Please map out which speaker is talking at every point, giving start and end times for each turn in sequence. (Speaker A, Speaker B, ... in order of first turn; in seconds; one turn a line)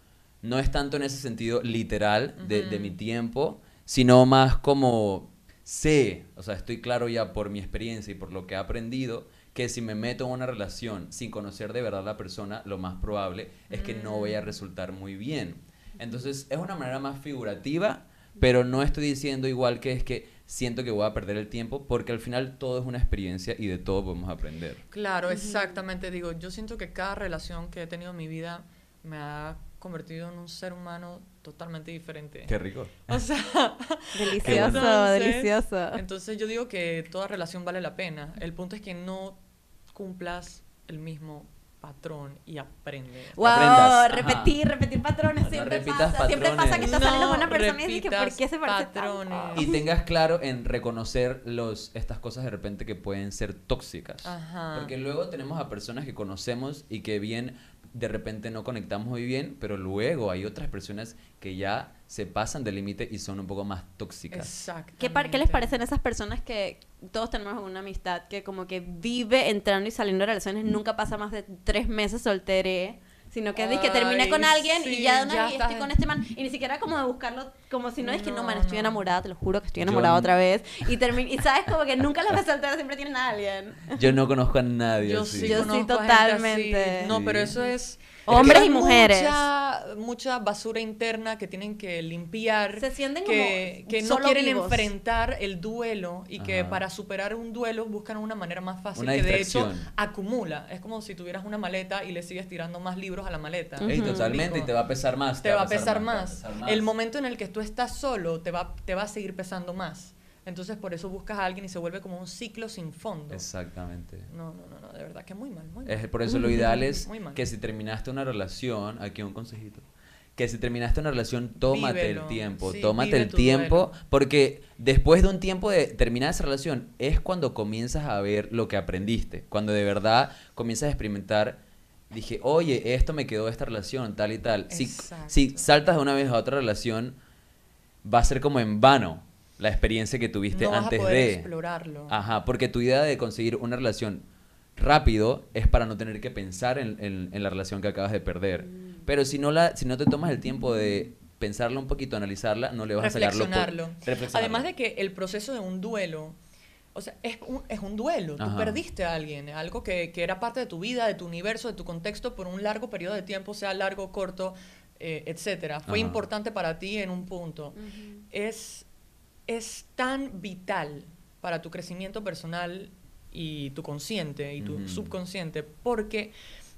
Speaker A: 0.4-24.8
Speaker B: 2.4-2.9
Speaker B: 13.7-14.5
Speaker B: 24.9-32.5
Speaker C: 25.3-25.8
Speaker A: 32.5-33.2
Speaker B: 33.1-39.4
Speaker C: 34.1-36.0
Speaker A: 34.4-34.9
Speaker B: 39.9-43.4
Speaker C: 43.4-49.8
Speaker A: 43.4-44.5
Speaker A: 45.4-47.6
Speaker B: 46.8-49.7
Speaker A: 49.5-64.5
Speaker B: 54.2-54.9
Speaker B: 64.3-65.8
Speaker C: 65.0-84.2
Speaker B: 73.5-75.9
Speaker B: 78.0-79.0
Speaker A: 79.8-80.3
Speaker A: 83.9-85.7
Speaker B: 85.0-104.7
Speaker C: 85.4-87.7
Speaker A: 87.1-87.5
Speaker C: 88.2-89.5
Speaker A: 88.3-88.6
Speaker C: 92.8-94.9
Speaker A: 96.4-96.8
Speaker A: 98.9-99.9
Speaker C: 103.8-104.4
Speaker A: 103.9-106.8
Speaker B: 105.4-113.4
Speaker A: 113.3-114.3
Speaker B: 114.3-117.4
Speaker A: 115.8-137.2
Speaker C: 116.3-116.8
Speaker B: 121.6-123.9
Speaker B: 134.7-135.7
Speaker A: 138.0-141.5
Speaker B: 140.5-142.2
Speaker A: 142.1-144.2
Speaker A: 144.8-154.7
Speaker B: 153.0-156.4
Speaker B: 156.9-167.8
Speaker A: 158.4-158.8
Speaker A: 165.9-166.2
Speaker C: 167.8-168.2
Speaker B: 168.3-168.9
Speaker B: 169.5-176.3
Speaker A: 174.6-175.1